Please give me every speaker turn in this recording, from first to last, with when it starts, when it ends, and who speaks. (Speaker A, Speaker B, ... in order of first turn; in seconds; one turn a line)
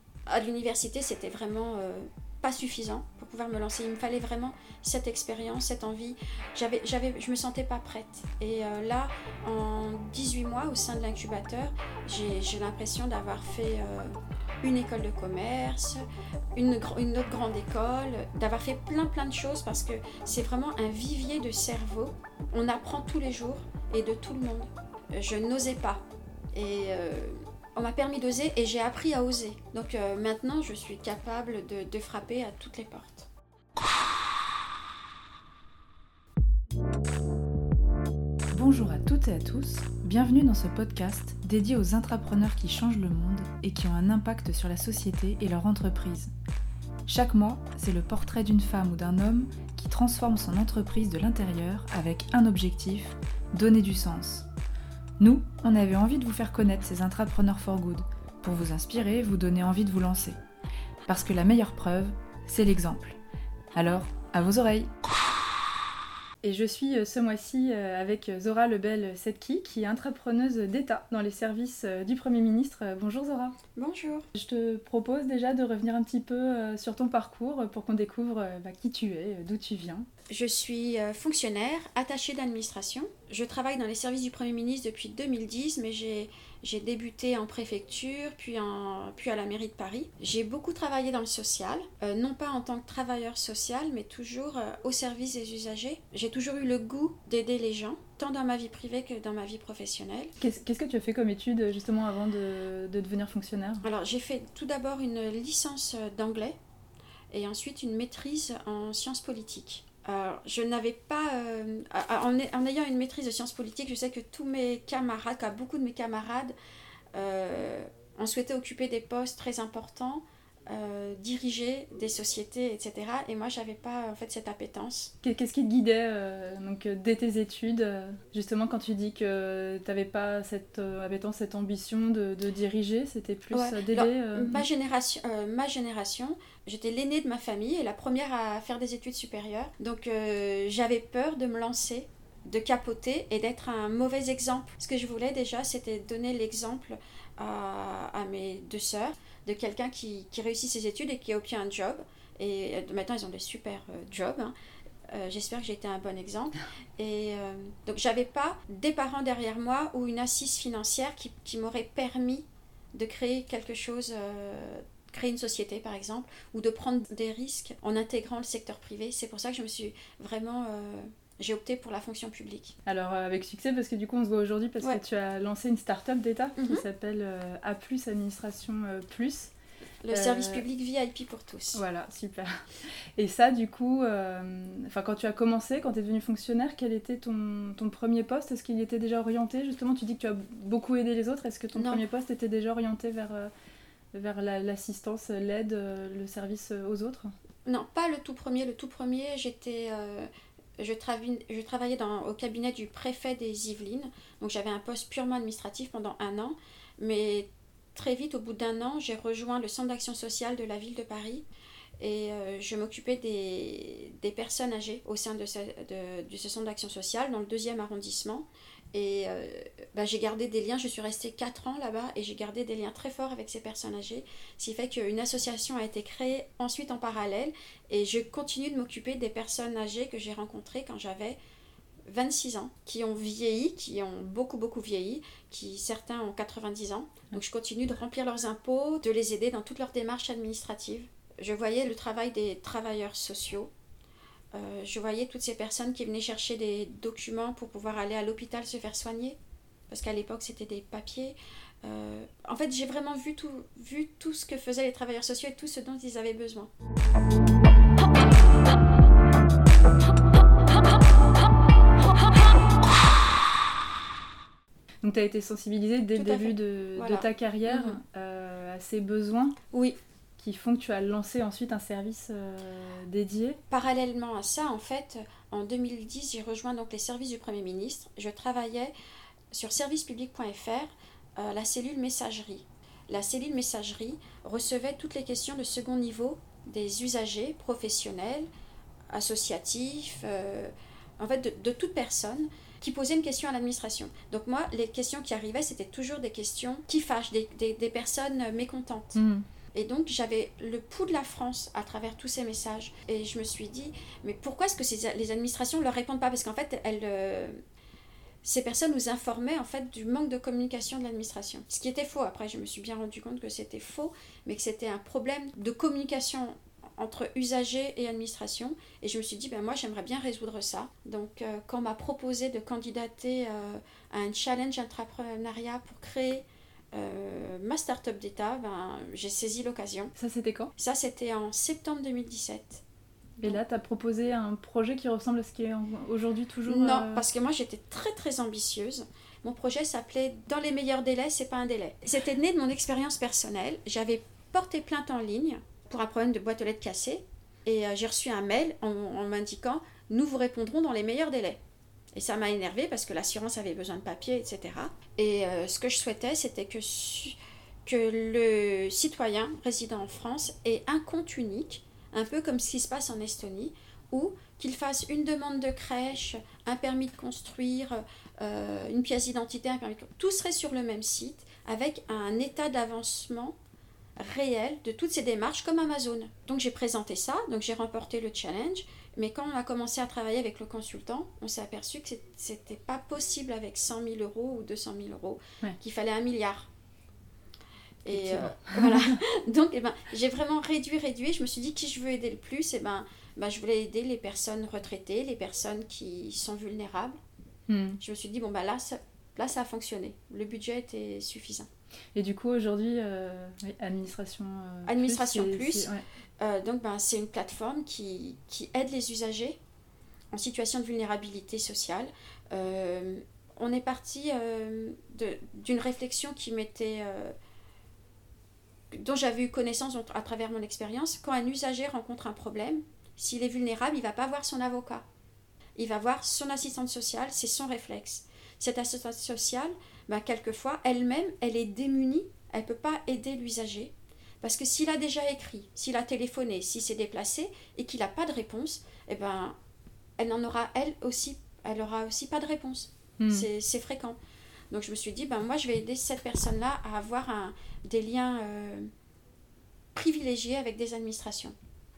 Speaker A: 0.3-16.0
Speaker A: 16.6-26.0
Speaker A: 26.5-33.3
Speaker B: 38.5-46.3
Speaker B: 47.1-54.5
Speaker B: 55.2-60.4
Speaker B: 61.1-63.2
Speaker B: 63.7-64.9
Speaker B: 66.4-73.6
Speaker A: 73.8-74.3
Speaker B: 74.3-80.1
Speaker A: 80.3-100.3
Speaker B: 100.4-103.8
Speaker A: 103.8-106.6
Speaker A: 107.3-116.5
Speaker A: 117.2-125.1
Speaker B: 125.2-134.7
Speaker A: 133.5-154.5
Speaker A: 155.1-172.8
Speaker B: 172.9-179.5
Speaker A: 176.6-176.8
Speaker A: 180.0-181.8
Speaker B: 180.1-180.6
Speaker B: 181.7-193.5
Speaker A: 191.7-192.0
Speaker B: 194.1-197.3
Speaker A: 197.7-211.4
Speaker A: 212.0-231.4
Speaker A: 232.1-243.7
Speaker A: 244.5-249.4
Speaker A: 249.9-256.7
Speaker B: 265.0-269.6
Speaker A: 266.1-268.0
Speaker B: 270.4-273.6
Speaker A: 273.7-278.9
Speaker A: 279.5-288.5
Speaker A: 289.1-299.2
Speaker B: 299.2-299.4
Speaker A: 299.7-307.6
Speaker A: 308.4-330.1
Speaker B: 330.1-330.7
Speaker A: 330.8-332.8
Speaker B: 333.4-337.2
Speaker A: 336.7-351.6
Speaker A: 352.1-357.4
Speaker A: 357.9-373.6
Speaker A: 374.2-386.7
Speaker A: 388.0-397.2
Speaker B: 388.1-389.2
Speaker B: 397.7-398.0
Speaker A: 398.0-401.7
Speaker B: 402.1-406.0
Speaker A: 404.9-405.9
Speaker A: 406.4-409.6
Speaker A: 410.3-417.3
Speaker A: 418.9-425.0
Speaker A: 425.8-439.6
Speaker A: 440.2-444.2
Speaker B: 443.2-443.5
Speaker A: 444.7-448.9
Speaker A: 449.9-451.6